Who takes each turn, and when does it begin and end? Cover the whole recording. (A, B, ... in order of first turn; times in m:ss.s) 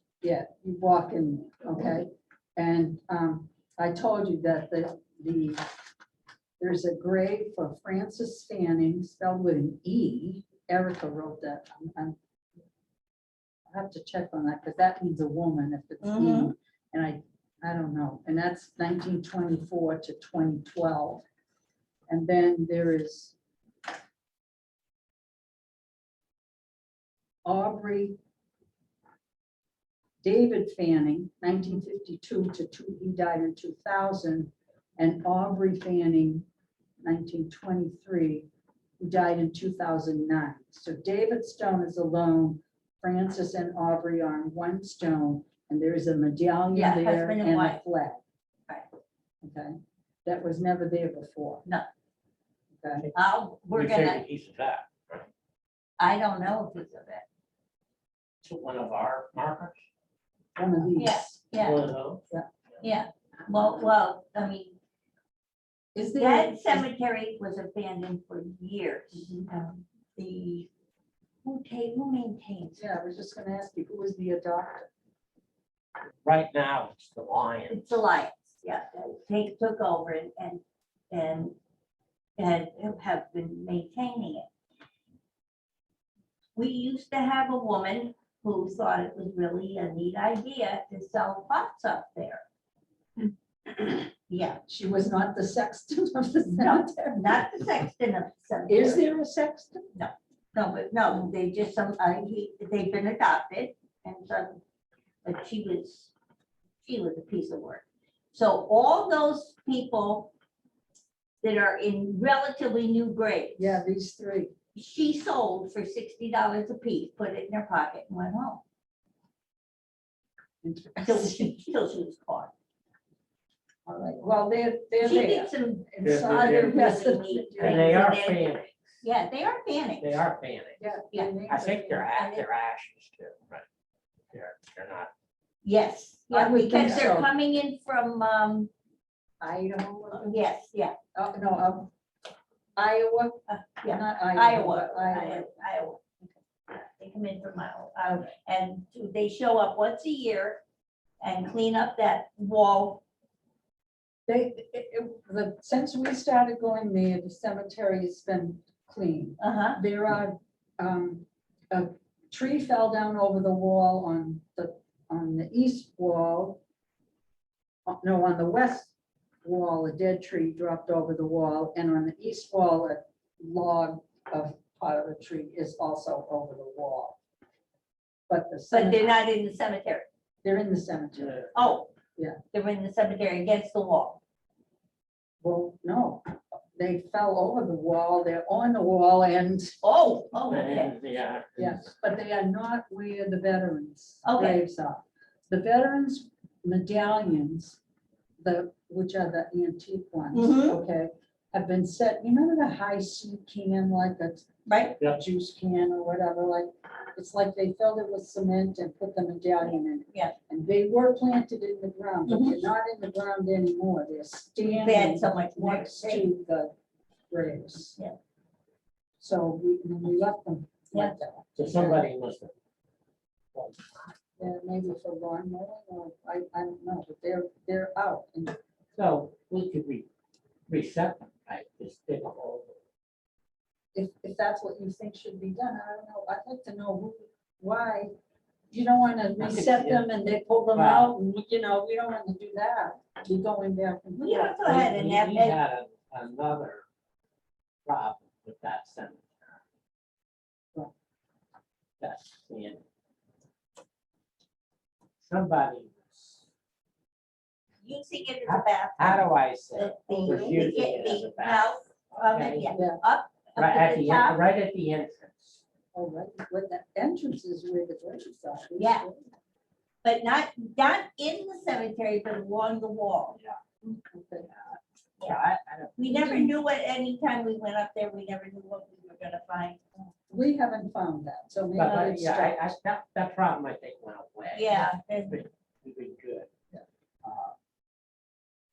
0:00.2-0:05.6 A
0:06.6-0:12.2 A
0:13.7-0:21.2 A
0:16.0-0:16.5 B
0:22.1-0:23.3 A
0:27.4-0:28.2 A
0:30.2-0:36.4 A
0:37.0-0:38.5 A
0:39.0-0:48.2 A
0:46.7-0:47.8 B
0:49.4-0:51.6 A
0:52.8-0:53.1 A
0:53.1-0:54.2 B
0:53.7-0:55.2 C
0:56.0-0:57.2 B
0:58.4-0:59.8 C
1:00.6-1:01.4 A
1:01.0-1:01.8 B
1:01.6-1:02.2 C
1:02.8-1:04.7 B
1:05.9-1:06.9 A
1:06.1-1:10.7 B
1:09.1-1:09.5 A
1:11.4-1:12.8 B
1:12.8-1:14.9 A
1:16.2-1:17.8 C
1:17.7-1:21.5 B
1:22.4-1:24.5 B
1:26.6-1:32.4 B
1:34.3-1:34.6 B
1:34.6-1:37.4 A
1:36.4-1:39.0 B
1:38.7-1:39.8 A
1:39.9-1:44.6 B
1:45.2-1:46.1 B
1:46.8-1:50.3 B
1:51.4-1:53.8 B
1:53.6-1:54.5 A
1:54.8-1:58.6 B
2:00.6-2:01.5 A
2:01.0-2:02.5 B
2:03.8-2:08.1 A
2:05.0-2:10.2 B
2:06.0-2:06.7 C
2:07.6-2:08.9 C
2:10.0-2:10.8 C
2:10.8-2:12.1 A
2:11.5-2:13.6 C
2:12.1-2:12.4 B
2:14.3-2:15.1 C
2:15.6-2:18.7 B
2:16.3-2:17.3 A
2:16.8-2:17.1 C
2:19.4-2:20.3 A
2:20.2-2:21.0 B
2:21.1-2:21.9 A
2:22.8-2:25.5 A
2:23.5-2:26.0 B
2:26.7-2:30.6 B
2:31.2-2:33.0 B
2:34.3-2:46.6 A
2:39.4-2:39.8 B
2:47.9-2:48.9 A
2:49.4-2:57.2 A
2:58.3-2:59.2 A
2:58.7-3:00.0 B
3:00.4-3:01.4 A
3:01.2-3:01.6 C
3:01.5-3:01.9 B
3:02.5-3:04.2 B
3:05.4-3:09.8 A
3:09.8-3:10.9 B
3:10.5-3:11.8 C
3:11.6-3:17.8 A
3:14.2-3:14.6 B
3:18.4-3:24.5 A
3:20.3-3:20.8 B
3:24.7-3:25.0 B
3:25.0-3:36.7 A
3:32.3-3:32.6 B
3:34.6-3:36.3 B
3:37.3-3:38.0 A
3:39.2-3:42.0 A
3:41.6-3:42.5 C
3:43.5-3:44.2 C
3:44.4-3:48.6 A
3:48.9-3:50.1 C
3:50.7-3:52.8 C
3:53.9-3:58.1 A
3:58.7-4:04.6 A
3:59.4-4:00.1 C
4:00.7-4:01.1 C
4:04.2-4:05.6 B
4:04.6-4:06.8 C
4:07.8-4:09.6 C
4:12.0-4:12.8 C
4:15.2-4:16.5 C
4:17.8-4:24.4 B
4:18.4-4:22.7 C
4:20.2-4:20.6 A
4:22.7-4:23.0 A
4:23.6-4:25.6 C
4:25.9-4:29.3 A
4:28.8-4:29.0 B
4:30.0-4:33.4 B
4:33.9-4:34.5 A
4:34.6-4:36.0 C
4:36.0-4:39.9 B
4:36.0-4:36.5 A
4:40.3-4:42.7 A
4:41.8-4:46.5 C
4:41.8-4:42.2 B
4:44.5-4:45.4 B
4:47.2-4:47.5 C